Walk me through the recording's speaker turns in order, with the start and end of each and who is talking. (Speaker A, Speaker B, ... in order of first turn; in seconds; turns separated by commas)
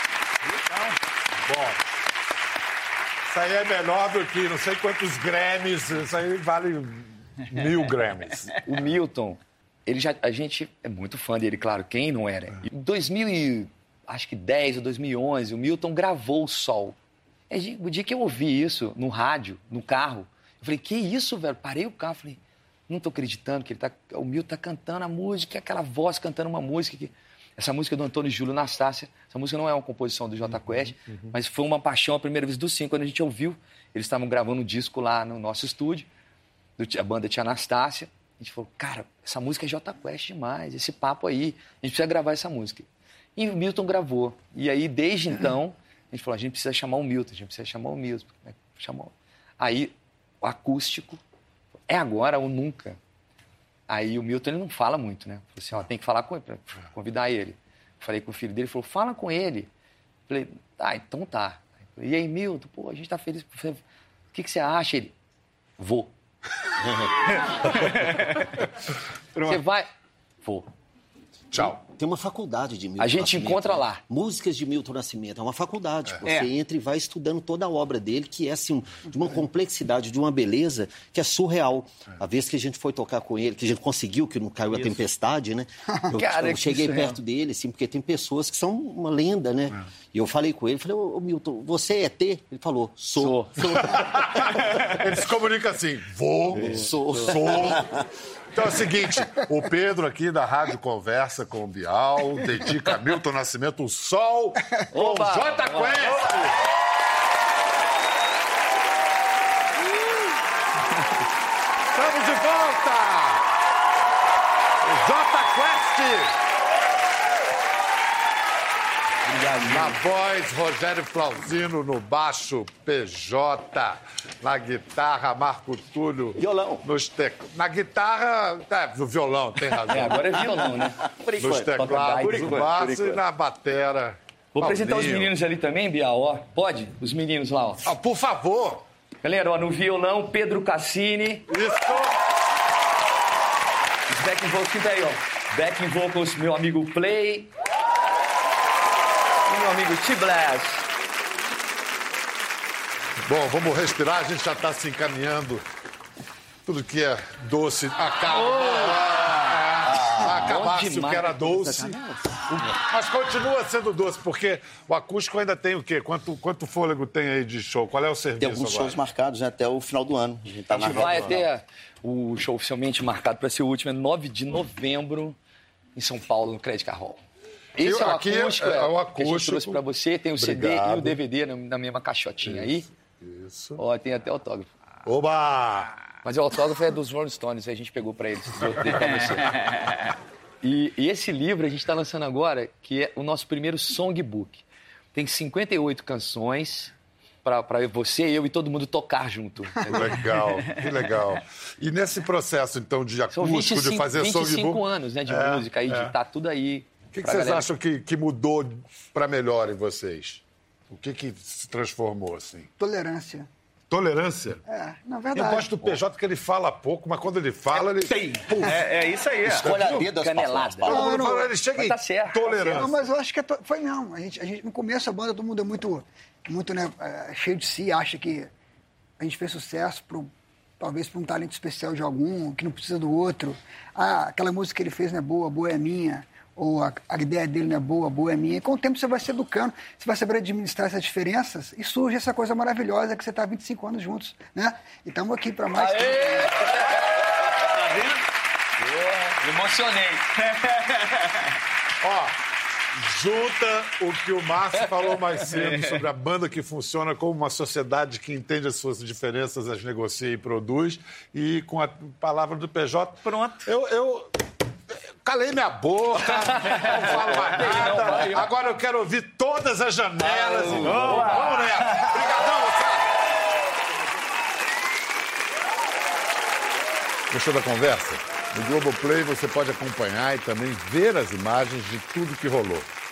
Speaker A: 1.4-1.8, Speaker A: 3.3-8.8, Speaker B: 8.6-17.0, Speaker B: 17.5-36.1, Speaker B: 36.8-51.2, Speaker B: 51.9-53.0, Speaker B: 53.9-59.7, Speaker B: 60.3-63.8, Speaker B: 64.3-65.1, Speaker B: 65.8-66.1, Speaker C: 67.7-68.6, Speaker B: 69.4-69.9, Speaker B: 70.4-70.7, Speaker A: 71.5-71.8, Speaker D: 71.8-94.2, Speaker B: 73.0-74.0, Speaker C: 76.2-76.5, Speaker B: 86.1-87.2, Speaker B: 93.2-93.9, Speaker A: 93.7-98.0, Speaker B: 96.6-97.3, Speaker D: 96.6-97.8, Speaker E: 97.5-97.9, Speaker A: 98.5-106.6, Speaker B: 104.9-106.3, Speaker A: 111.9-113.5, Speaker A: 114.8-116.4, Speaker B: 119.2-120.0, Speaker A: 119.6-130.4, Speaker E: 126.4-126.8, Speaker B: 129.9-131.1, Speaker E: 131.0-131.7, Speaker A: 131.4-135.3, Speaker B: 131.7-133.2, Speaker B: 134.6-137.9, Speaker A: 137.8-138.9, Speaker B: 139.2-141.5, Speaker A: 141.5-142.2, Speaker B: 144.1-147.5, Speaker B: 149.5-150.9, Speaker A: 153.2-155.7, Speaker A: 156.7-162.0, Speaker B: 158.3-159.3, Speaker E: 159.8-160.5, Speaker B: 160.2-162.4, Speaker A: 162.5-169.0, Speaker E: 168.4-171.4, Speaker A: 170.7-171.4, Speaker B: 170.7-175.4, Speaker B: 176.0-177.2, Speaker A: 177.8-179.8, Speaker B: 177.8-182.9, Speaker A: 180.4-181.2, Speaker A: 182.4-183.8, Speaker B: 183.8-184.7, Speaker A: 185.1-185.9, Speaker B: 186.2-189.9, Speaker B: 190.6-196.9, Speaker B: 197.4-200.3, Speaker A: 199.9-206.2, Speaker B: 203.3-207.7, Speaker A: 207.1-212.7, Speaker F: 212.8-213.5, Speaker A: 213.9-214.6, Speaker F: 214.7-215.9, Speaker A: 215.3-218.9, Speaker C: 218.0-219.7, Speaker A: 219.4-220.1, Speaker E: 219.4-221.1, Speaker B: 219.6-222.9, Speaker A: 220.8-223.1, Speaker F: 220.9-221.5, Speaker F: 222.6-228.5, Speaker F: 229.2-246.8, Speaker B: 245.7-248.1, Speaker B: 248.8-250.3, Speaker A: 252.0-252.4, Speaker A: 252.9-264.3, Speaker C: 263.3-263.6, Speaker A: 264.9-273.2, Speaker B: 266.5-268.5, Speaker C: 267.0-268.4, Speaker B: 270.5-271.6, Speaker C: 270.8-271.8, Speaker A: 277.3-282.9